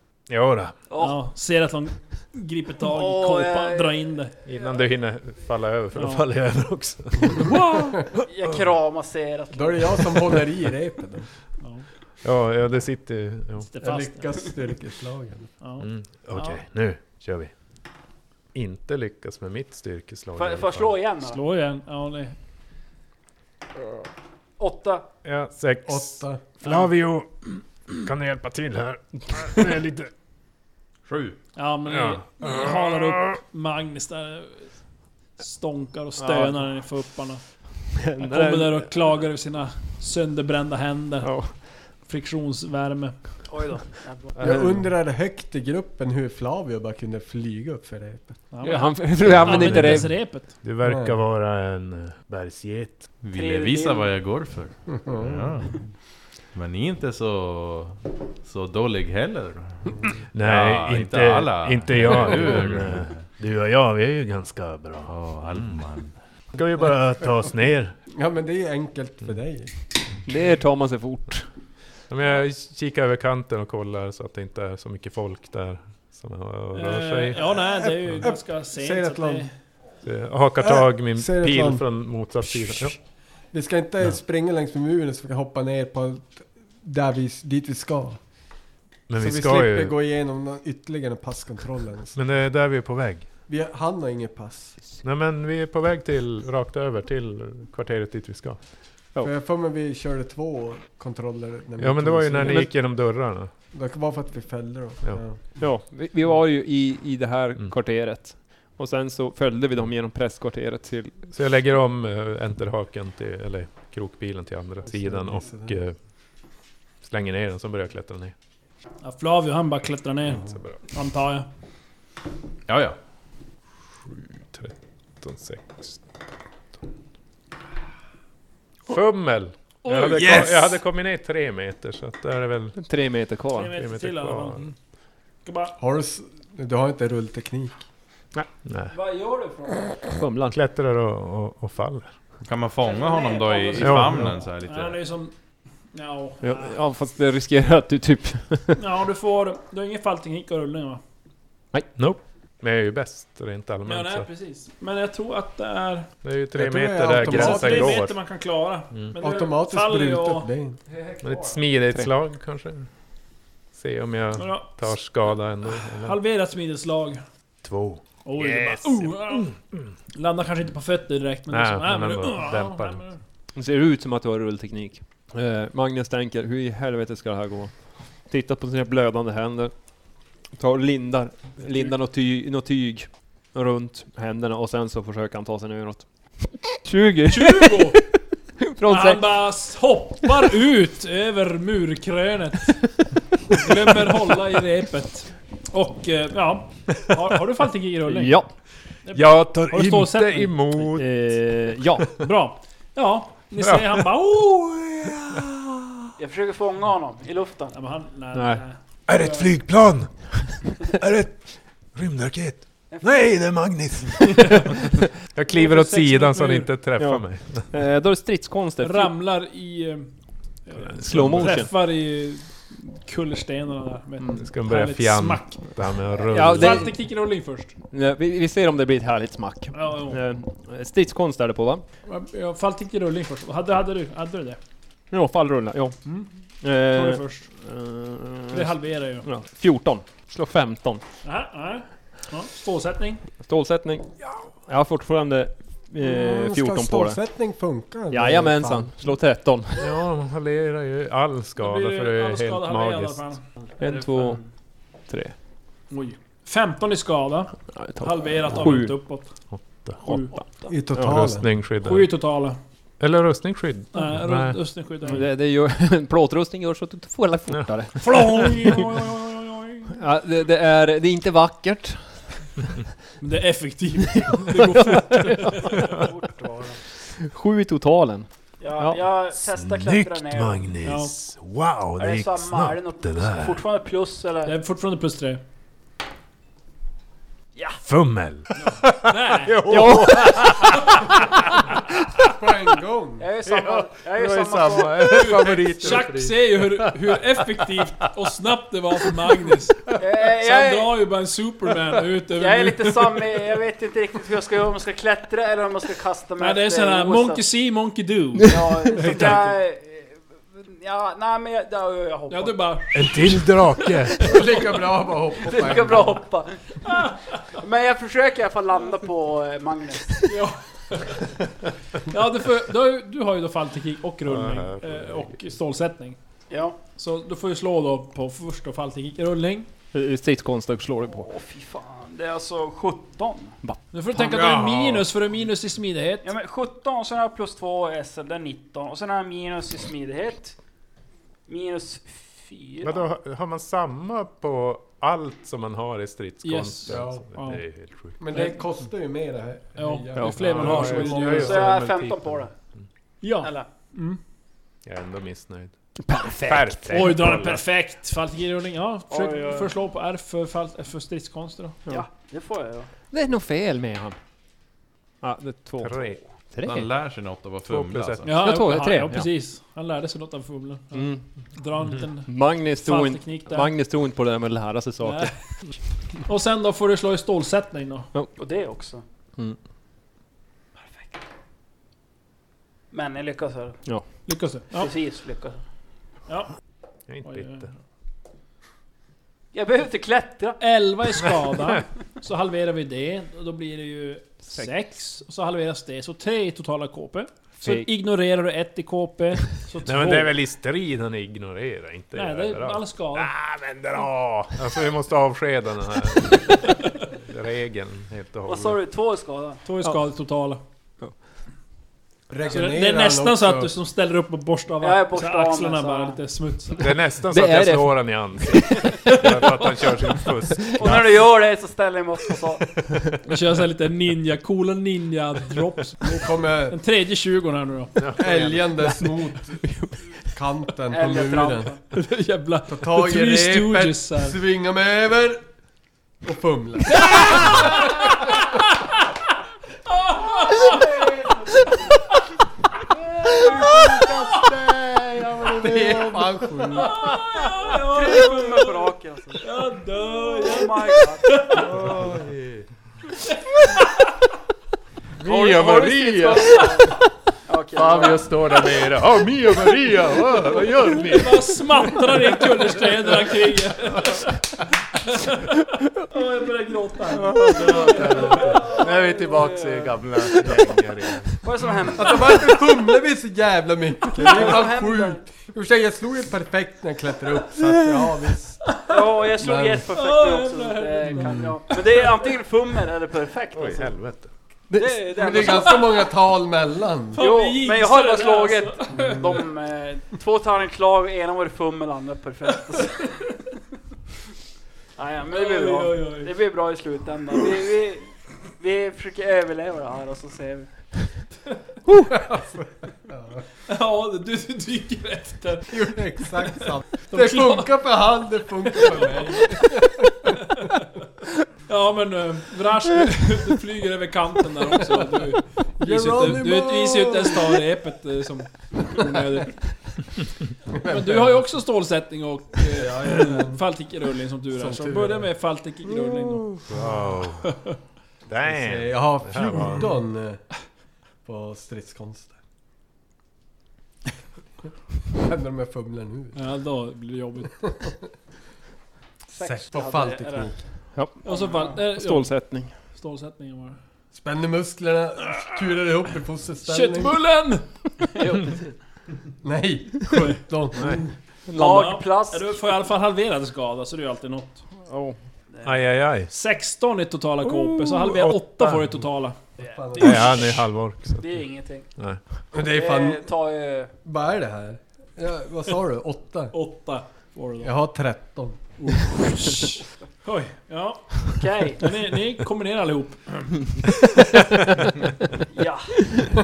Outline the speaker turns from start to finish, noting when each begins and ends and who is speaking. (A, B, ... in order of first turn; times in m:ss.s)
0:00.3-0:00.8 A
0:00.9-0:01.2 B
0:01.0-0:04.3 C
0:02.8-0:04.8 B
0:04.4-0:07.6 A
0:06.0-0:06.2 C
0:07.4-0:08.0 D
0:07.5-0:08.0 C
0:08.2-0:10.0 B
0:09.5-0:11.3 D
0:11.6-0:11.9 C
0:12.2-0:13.7 A
0:13.7-0:14.4 C
0:13.8-0:15.5 D
0:15.6-0:16.6 C
0:15.8-0:17.5 A
0:18.5-0:21.0 A
0:20.4-0:21.4 B
0:21.2-0:22.4 C
0:24.6-0:25.1 B
0:25.2-0:30.1 A
0:25.9-0:26.4 D
0:31.1-0:31.4 E
0:31.6-0:34.7 C
0:31.9-0:33.3 A
0:35.4-0:43.6 C
0:36.2-0:36.8 F
0:37.9-0:39.1 F
0:41.2-0:41.8 F
0:43.5-0:44.4 B
0:44.4-0:44.8 A
0:44.4-0:48.5 D
0:48.5-0:50.5 C
0:48.6-0:50.2 F
0:49.2-0:53.1 A
0:50.8-0:51.2 D
0:53.2-0:56.0 E
0:53.3-0:54.2 B
0:54.9-0:55.6 D
0:56.5-1:03.3 E
1:00.3-1:05.6 A
1:05.1-1:06.2 E
1:06.5-1:08.0 A
1:08.1-1:09.8 D
1:10.2-1:11.5 F
1:12.1-1:17.4 A
1:16.7-1:19.5 C
1:17.4-1:19.5 D
1:20.0-1:23.0 A
1:20.6-1:23.0 D
1:23.5-1:28.2 D
1:29.1-1:30.0 A
1:29.2-1:32.2 D
1:32.2-1:33.3 A
1:33.5-1:34.8 D
1:35.0-1:38.6 A
1:39.2-1:42.8 D
1:41.8-1:43.5 A
1:42.4-1:42.7 F
1:43.7-1:45.6 D
1:45.6-1:51.2 F
1:51.3-1:56.0 A
1:54.9-1:55.8 D
1:57.0-1:58.4 A
1:59.0-2:01.5 C
2:00.3-2:00.8 A
2:02.7-2:03.0 E
2:04.1-2:06.0 A
2:08.9-2:12.8 A
2:09.9-2:10.5 C
2:12.8-2:13.7 F
2:13.6-2:14.7 C
2:13.7-2:14.7 A
2:15.4-2:15.8 C
2:15.8-2:17.8 D
2:18.7-2:18.9 A
2:18.9-2:20.0 B
2:20.2-2:20.6 F
2:20.5-2:22.1 A
2:22.4-2:25.0 E
2:22.8-2:24.3 B
2:23.8-2:24.4 A
2:23.9-2:25.4 C
2:25.9-2:26.8 C
2:26.4-2:28.8 F
2:28.8-2:31.0 C
2:32.0-2:34.3 A
2:33.8-2:36.1 C
2:36.2-2:38.2 A
2:36.6-2:38.0 D
2:37.2-2:40.5 C
2:39.2-2:40.8 D
2:40.9-2:41.6 B
2:41.2-2:42.9 A
2:43.7-2:46.2 A
2:44.4-2:44.9 C
2:45.8-2:47.2 C
2:47.6-2:49.8 A
2:48.2-2:49.5 C
2:50.1-2:53.2 C
2:51.5-2:53.0 A
2:53.6-2:59.7 F
3:00.5-3:09.4 F
3:07.3-3:08.1 C
3:08.8-3:18.4 C
3:18.1-3:18.5 F
3:19.0-3:20.6 C
3:19.1-3:21.4 A
3:20.9-3:22.1 F
3:22.2-3:25.4 C
3:23.6-3:24.0 A
3:26.2-3:27.8 B
3:27.7-3:29.5 C
3:28.3-3:28.6 F
3:29.1-3:34.7 A
3:32.9-3:33.3 B
3:35.2-3:37.7 A
3:35.5-3:36.7 C
3:37.0-3:39.1 F
3:38.8-3:40.1 C
3:40.6-3:45.6 C
3:41.0-3:41.4 A
3:41.0-3:41.7 F
3:44.4-3:46.9 A
3:46.2-3:47.0 F
3:46.5-3:47.7 C
3:47.9-3:51.8 F
3:49.7-3:50.2 C
3:52.1-3:54.6 C
3:55.1-3:56.0 F
3:56.0-3:56.3 C
3:56.6-4:01.0 F
3:56.8-3:57.5 C
3:58.5-3:59.3 C
4:01.2-4:03.2 C
4:03.4-4:07.2 F
4:06.0-4:08.9 D
4:08.1-4:09.9 F
4:09.8-4:13.3 A
4:11.6-4:13.4 C
4:13.8-4:14.4 F
4:15.0-4:15.3 F
4:15.9-4:20.4 C
4:17.7-4:19.0 F
4:19.5-4:20.0 A
4:20.0-4:21.3 F
4:20.7-4:21.5 D
4:21.0-4:22.1 A
4:21.8-4:22.6 C
4:23.0-4:24.6 A
4:23.9-4:25.3 C
4:25.0-4:28.8 F
4:28.0-4:29.9 C
4:29.9-4:32.7 F
4:33.2-4:35.8 C
4:34.3-4:35.8 F
4:35.8-4:36.8 B
4:37.0-4:39.0 F
4:38.6-4:40.8 B
4:39.5-4:43.6 A
4:40.8-4:41.2 C
4:42.0-4:44.6 B
4:44.5-4:45.4 C
4:47.6-4:47.8 B
4:47.8-4:48.9 A
4:48.6-4:49.8 C
4:49.5-4:51.0 A
4:49.6-4:50.8 F
4:50.8-4:51.2 C
4:52.3-4:53.3 D
4:53.2-4:55.6 B
4:53.5-4:56.2 A
4:55.0-4:56.3 D
4:55.0-5:03.2 C
5:00.0-5:01.0 B
5:02.4-5:07.5 B
5:06.4-5:09.5 C
5:08.5-5:13.0 B
5:12.3-5:13.6 C
5:12.9-5:14.2 A
5:14.2-5:16.2 D
5:15.4-5:20.3 B
5:16.8-5:17.5 C
5:20.2-5:21.3 C
5:22.1-5:26.2 C
5:24.2-5:25.4 A
5:26.5-5:26.8 B
5:27.0-5:29.7 C
5:29.9-5:31.3 F
5:31.1-5:33.6 B
5:33.6-5:34.6 F
5:33.9-5:36.3 C
5:34.3-5:35.0 A
5:36.2-5:40.6 B
5:41.5-5:43.0 B
5:42.8-5:48.2 A
5:46.4-5:47.6 C
5:46.9-5:47.3 D
5:48.2-5:51.5 D
5:48.3-5:48.6 C
5:49.8-5:51.6 C
5:50.2-5:50.9 F
5:50.4-5:52.5 A
5:51.1-5:52.5 B
5:53.2-5:54.2 C
5:53.4-5:53.7 B
5:54.8-5:55.8 A
5:56.0-5:57.2 F
5:56.4-5:57.6 A
5:56.9-6:01.8 C
5:59.1-5:59.7 B
6:01.9-6:02.9 B
6:03.1-6:04.2 F
6:05.2-6:06.9 F
6:05.8-6:06.2 A
6:06.6-6:08.3 E
6:07.7-6:08.3 A
6:08.2-6:13.7 C
6:08.4-6:09.3 F
6:10.9-6:11.2 F
6:12.3-6:15.4 F
6:15.0-6:15.4 C
6:16.2-6:18.1 C
6:18.4-6:19.0 B
6:20.8-6:21.2 B
6:22.9-6:23.8 B
6:23.8-6:24.3 F
6:24.2-6:24.9 C
6:24.8-6:25.6 B
6:26.3-6:26.5 C
6:27.1-6:27.7 A
6:27.2-6:27.7 C
6:29.5-6:30.6 B
6:30.6-6:40.4 C
6:37.6-6:37.9 F
6:39.8-6:48.8 A
6:42.1-6:43.3 C
6:48.5-6:49.6 B
6:49.6-6:50.6 C
6:52.3-6:53.7 D
6:52.5-6:56.9 C
6:54.8-6:56.2 B
6:56.8-7:01.2 A
6:57.3-6:59.3 F
6:59.0-6:59.6 C
7:00.8-7:02.6 B
7:03.3-7:06.1 C
7:06.0-7:06.8 D
7:06.7-7:08.1 C
7:08.0-7:08.8 A
7:08.2-7:09.6 D
7:09.6-7:10.2 F
7:10.3-7:11.8 D
7:10.9-7:11.8 B
7:11.9-7:14.4 C
7:12.7-7:15.5 D
7:16.2-7:17.7 D
7:16.9-7:19.0 C
7:19.9-7:21.1 C
7:20.7-7:21.1 B
7:23.4-7:23.8 B
7:23.6-7:24.0 D
7:24.4-7:24.8 A
7:25.3-7:27.0 D
7:26.8-7:31.7 C
7:27.7-7:31.5 B
7:31.5-7:32.7 E
7:31.8-7:32.1 A
7:35.2-7:38.3 B
7:35.2-7:36.6 A
7:35.4-7:36.7 E
7:37.8-7:41.4 A
7:41.1-7:44.4 C
7:45.0-7:48.7 C
7:47.3-7:51.4 A
7:47.9-7:50.0 B
7:51.4-7:52.6 B
7:52.0-7:58.8 D
7:54.2-7:55.2 B
7:58.8-8:04.0 B
7:59.4-7:59.9 D
7:59.9-8:02.3 C
8:01.1-8:01.6 D
8:03.5-8:04.3 A
8:04.7-8:05.1 F
8:04.8-8:06.1 B
8:05.1-8:07.2 D
8:07.2-8:09.2 C
8:07.2-8:13.3 B
8:08.9-8:09.3 D
8:12.8-8:13.1 C
8:15.0-8:20.9 B
8:15.3-8:16.3 C
8:22.1-8:23.4 D
8:23.7-8:27.8 C
8:25.7-8:30.4 D
8:28.7-8:29.7 C
8:30.5-8:30.8 C
8:31.7-8:39.9 C
8:35.8-8:37.6 D
8:40.7-8:41.4 D
8:40.8-8:46.6 C
8:42.7-8:43.6 D
8:44.5-8:45.3 D
8:46.7-8:47.6 A
8:47.4-8:47.8 C
8:48.3-8:49.9 A
8:48.5-8:50.6 D
8:51.2-8:52.4 D
8:55.1-8:56.4 D
8:56.4-8:57.6 C
8:57.7-8:57.9 D
8:59.3-9:00.6 B
8:59.4-9:00.7 D
9:00.9-9:02.8 F
9:01.2-9:01.8 B
9:01.2-9:03.8 C
9:04.1-9:07.2 D
9:06.7-9:07.7 C
9:08.2-9:08.7 B
9:09.4-9:11.0 D
9:10.1-9:11.1 C
9:11.5-9:12.0 F
9:11.5-9:12.6 B
9:11.6-9:14.6 C
9:14.8-9:15.2 F
9:15.5-9:15.8 B
9:15.6-9:16.3 A
9:16.3-9:19.4 C
9:17.5-9:18.0 F
9:18.0-9:19.0 A
9:19.6-9:20.5 D
9:20.0-9:21.4 A
9:21.2-9:21.9 B
9:22.0-9:22.2 A
9:22.5-9:23.3 D
9:22.6-9:23.9 B
9:24.0-9:26.5 D
9:26.5-9:27.7 C
9:27.6-9:28.6 D
9:28.8-9:33.8 C
9:31.4-9:31.8 B
9:35.5-9:36.0 B